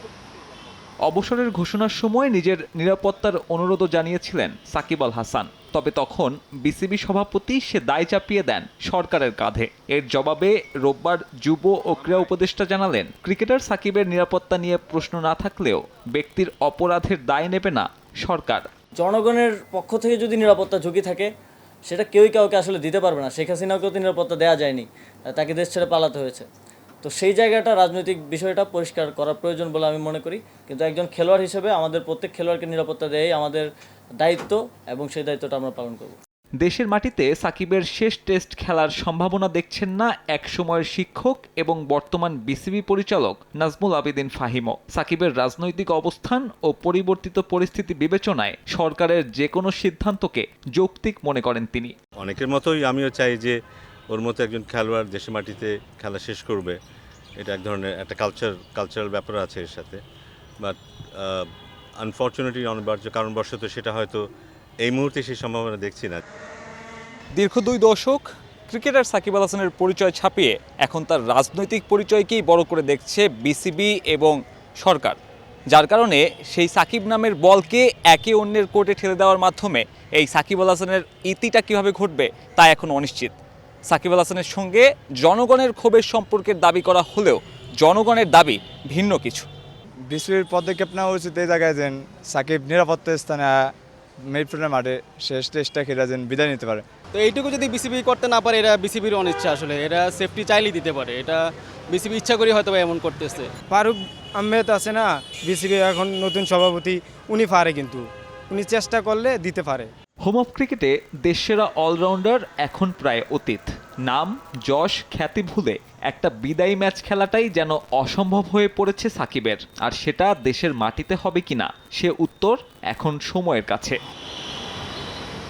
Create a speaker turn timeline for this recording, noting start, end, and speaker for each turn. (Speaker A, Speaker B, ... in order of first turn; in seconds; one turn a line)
Speaker A: 1.1-18.7
Speaker B: 19.0-21.3
Speaker B: 21.9-26.5
Speaker B: 27.0-33.7
Speaker B: 34.2-36.2
Speaker A: 36.6-51.9
Speaker C: 52.2-53.6
Speaker C: 54.1-56.8
Speaker C: 57.4-60.0
Speaker C: 60.6-61.5
Speaker C: 62.0-64.2
Speaker C: 64.8-66.2
Speaker A: 67.4-75.2
Speaker A: 75.7-83.4
Speaker A: 83.9-89.5
Speaker D: 90.1-93.6
Speaker D: 94.3-96.8
Speaker E: 97.1-103.5
Speaker F: 103.7-109.9
Speaker A: 110.2-124.0